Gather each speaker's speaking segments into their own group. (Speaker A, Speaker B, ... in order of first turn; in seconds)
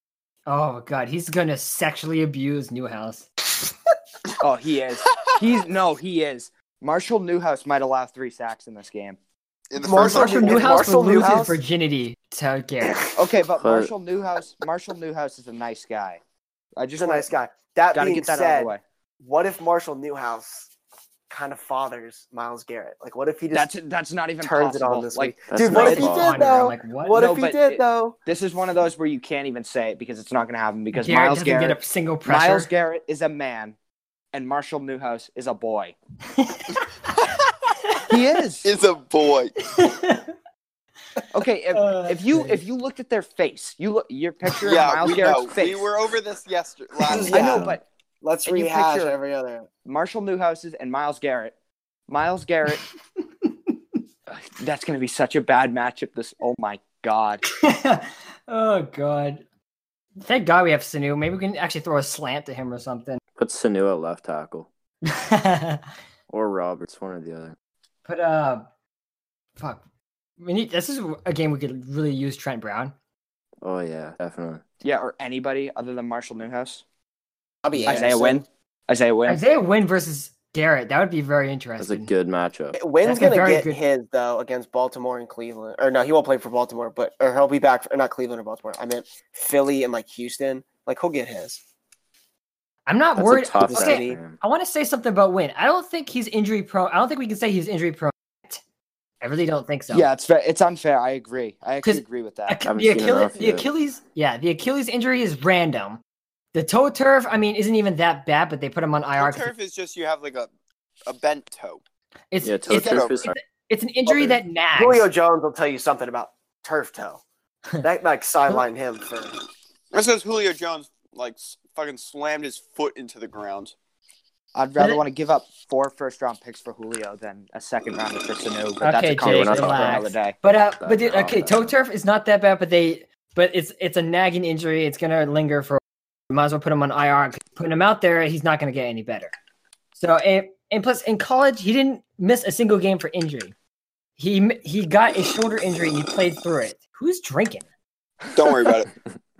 Speaker A: 0.5-3.3, 9.9-13.0, 25.7-27.2, 30.9-32.7, 36.3-36.9, 39.6-40.3, 41.7-42.6, 57.5-59.4, 60.2-63.2, 65.0-65.9, 68.0-68.7, 70.4-72.9, 79.3-82.1, 83.0-83.8, 92.9-98.6, 99.2-100.1, 101.8-106.0, 106.5-109.5, 112.3-115.0, 128.8-139.3, 139.9-143.5, 144.2-147.7
Speaker B: 4.4-9.2, 13.1-16.2, 16.8-17.3, 17.9-18.8, 23.5-26.0, 27.1-33.8, 34.3-35.9, 38.1-38.7, 41.3-45.9, 47.3-47.8, 48.5-49.1, 49.8-51.5, 52.1-52.8, 54.3-57.4, 74.8-76.8, 77.8-79.4, 99.9-102.6, 124.5-130.3
Speaker C: 9.7-10.8, 38.6-39.5, 44.6-47.3, 109.2-110.5, 111.0-111.8, 112.7-113.2, 119.9-123.7, 148.3-148.9
Speaker D: 9.8-11.6, 16.9-20.7, 21.3-23.7, 24.4-28.1, 47.1-49.7, 77.6-78.5, 82.7-91.6, 93.6-94.2, 114.1-117.2, 117.8-119.3
Speaker E: 13.6-13.9, 25.5-26.5, 47.1-47.8, 63.4-64.7, 66.3-67.5, 73.6-74.6, 81.8-82.8, 93.2-94.4, 102.6-103.7, 112.4-113.3, 129.2-130.1, 130.8-131.7